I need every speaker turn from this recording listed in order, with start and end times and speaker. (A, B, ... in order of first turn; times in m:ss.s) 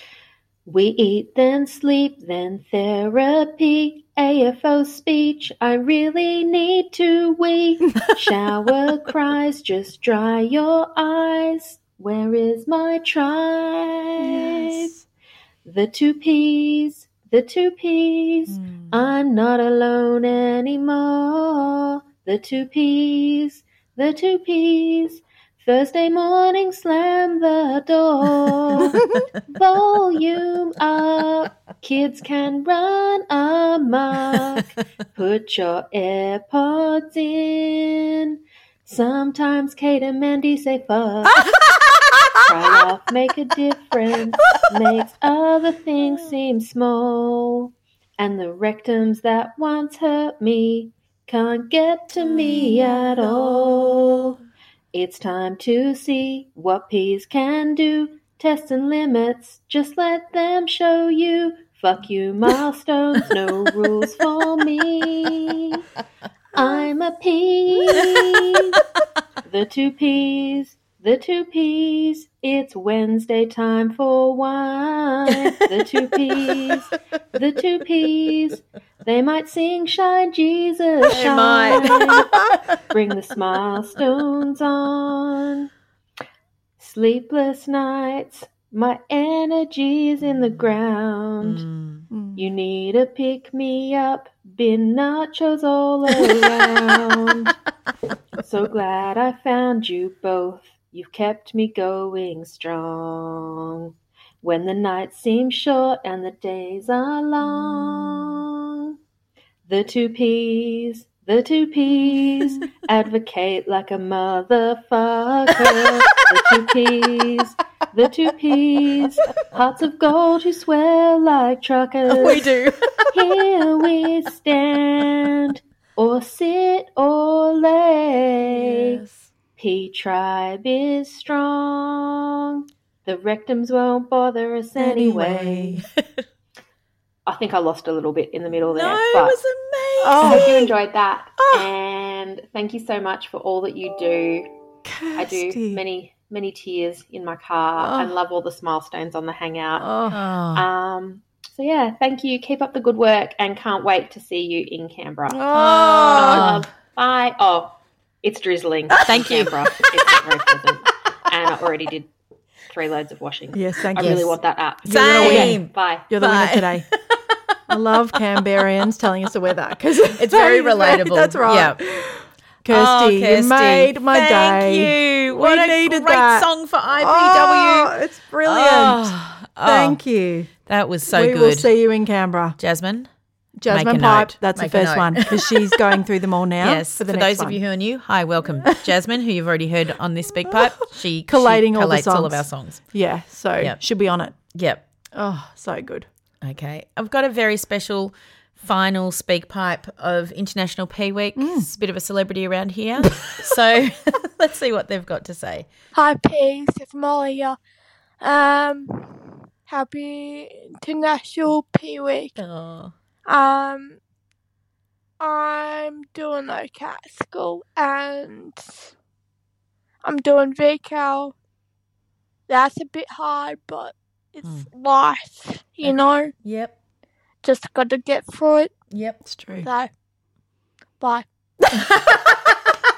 0:00.6-0:14.9 A
0:14.2-0:15.0 B
0:15.6-0:41.5 A
0:42.4-0:54.4 A
0:52.2-0:54.2 C
0:54.9-1:05.8 A
1:06.5-1:08.8 A
1:09.4-1:22.3 A
1:21.0-1:22.5 C
1:22.9-1:25.7 A
1:26.8-1:31.6 A
1:31.4-1:32.1 C
1:32.1-1:32.5 B
1:32.4-1:37.6 A
1:38.4-1:43.9 A
1:44.4-1:49.0 A
1:47.4-1:48.4 C
1:49.6-2:02.5 A
1:55.5-1:56.2 C
2:02.1-2:03.1 C
2:03.1-2:09.0 A
2:08.6-2:09.3 C
2:09.6-2:15.8 A
2:14.8-2:15.8 B
2:15.8-2:16.2 C
2:17.2-2:19.4 A
2:18.7-2:20.7 C
2:20.0-2:20.6 B
2:20.2-2:24.5 A
2:24.9-2:25.8 B
2:25.2-2:29.9 A
2:27.8-2:28.1 B
2:29.8-2:30.2 B
2:30.1-2:30.6 C
2:30.5-2:35.4 A
2:35.3-2:36.6 B
2:35.5-2:36.6 C
2:36.1-2:42.1 A
2:39.1-2:39.8 C
2:42.7-2:46.1 A
2:43.5-2:44.3 B
2:44.0-2:44.3 C
2:44.8-2:47.5 C
2:44.9-2:46.9 B
2:47.7-2:59.1 B
2:50.2-2:51.8 C
2:52.7-2:57.9 C
2:58.4-3:00.0 C
2:59.6-3:00.5 B
3:00.6-3:01.7 C
3:01.1-3:02.6 B
3:02.6-3:03.1 C
3:03.6-3:07.6 B
3:03.7-3:05.9 C
3:06.6-3:12.9 C
3:11.3-3:14.4 B
3:14.5-3:14.8 C
3:15.1-3:16.1 B
3:16.4-3:25.7 C
3:21.4-3:21.7 B
3:25.9-3:27.6 D
3:28.2-3:32.4 D
3:32.4-3:32.9 C
3:33.2-3:34.0 D
3:35.2-3:38.9 D
3:40.0-3:41.4 D
3:42.5-3:46.3 D
3:45.8-3:46.7 C
3:47.4-3:48.7 D
3:48.9-3:49.2 C
3:49.2-3:49.7 B
3:49.6-3:49.9 D
3:51.0-3:51.2 D
3:52.0-3:52.3 C